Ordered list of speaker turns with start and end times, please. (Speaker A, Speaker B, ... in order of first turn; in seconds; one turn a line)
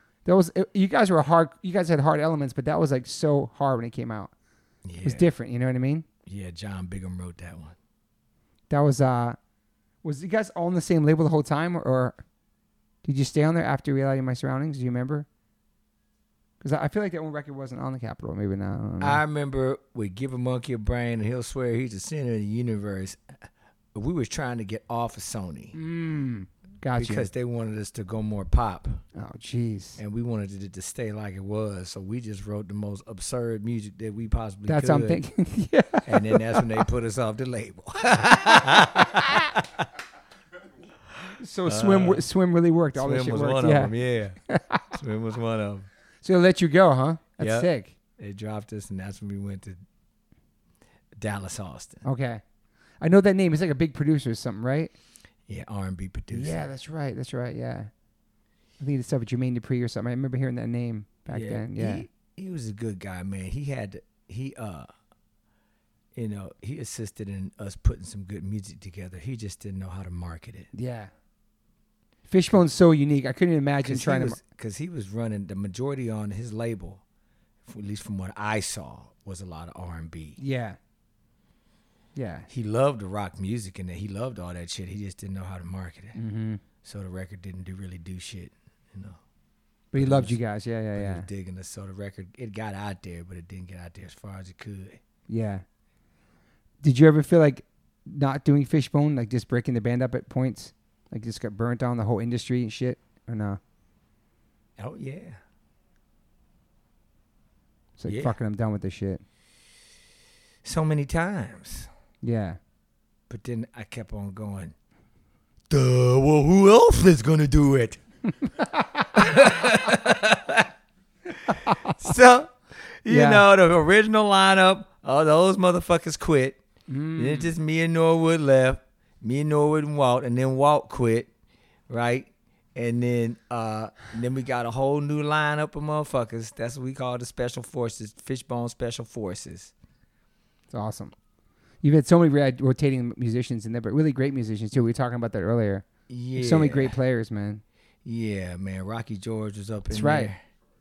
Speaker A: 0.2-4.3
Speaker B: 4.8-5.3
Speaker A: 5.0-6.0
Speaker B: 6.2-7.8
Speaker A: 8.7-9.4
Speaker A: 10.0-12.2
Speaker A: 13.0-15.3
Speaker A: 16.6-19.2
Speaker B: 19.0-25.8
Speaker A: 25.7-27.3
Speaker B: 26.9-29.0
Speaker A: 29.1-30.0
Speaker B: 30.0-35.2
Speaker A: 34.7-36.8
Speaker B: 36.0-39.9
Speaker B: 41.2-42.3
Speaker A: 41.4-43.9
Speaker B: 42.9-44.4
Speaker A: 44.5-44.9
Speaker B: 44.9-45.9
Speaker A: 46.2-47.9
Speaker B: 47.4-49.8
Speaker B: 51.1-52.0
Speaker A: 52.0-52.4
Speaker A: 53.0-54.9
Speaker B: 55.5-56.6
Speaker A: 56.3-57.9
Speaker A: 58.8-62.0
Speaker B: 61.3-64.9
Speaker B: 66.1-70.7
Speaker A: 70.7-71.1
Speaker A: 72.3-74.4
Speaker B: 73.8-77.0
Speaker B: 77.6-80.4
Speaker A: 80.4-80.8
Speaker A: 82.1-82.5
Speaker B: 82.5-86.2
Speaker A: 86.1-86.6
Speaker B: 86.8-89.2
Speaker A: 89.9-91.3
Speaker B: 89.9-90.4
Speaker B: 90.9-95.0
Speaker A: 95.3-95.6
Speaker A: 96.8-103.6
Speaker B: 104.8-105.4
Speaker A: 108.0-109.2
Speaker B: 108.1-108.3
Speaker B: 110.6-111.9
Speaker A: 112.2-112.6
Speaker B: 113.3-114.7
Speaker B: 115.7-118.0
Speaker A: 118.6-119.0
Speaker B: 119.1-120.7
Speaker B: 121.3-126.6
Speaker A: 121.5-122.0
Speaker A: 123.1-123.4
Speaker A: 126.9-127.5
Speaker B: 127.2-131.3
Speaker B: 131.9-139.7
Speaker A: 140.7-141.1
Speaker A: 141.8-147.6
Speaker B: 146.1-147.0
Speaker B: 148.0-150.4
Speaker A: 149.9-150.3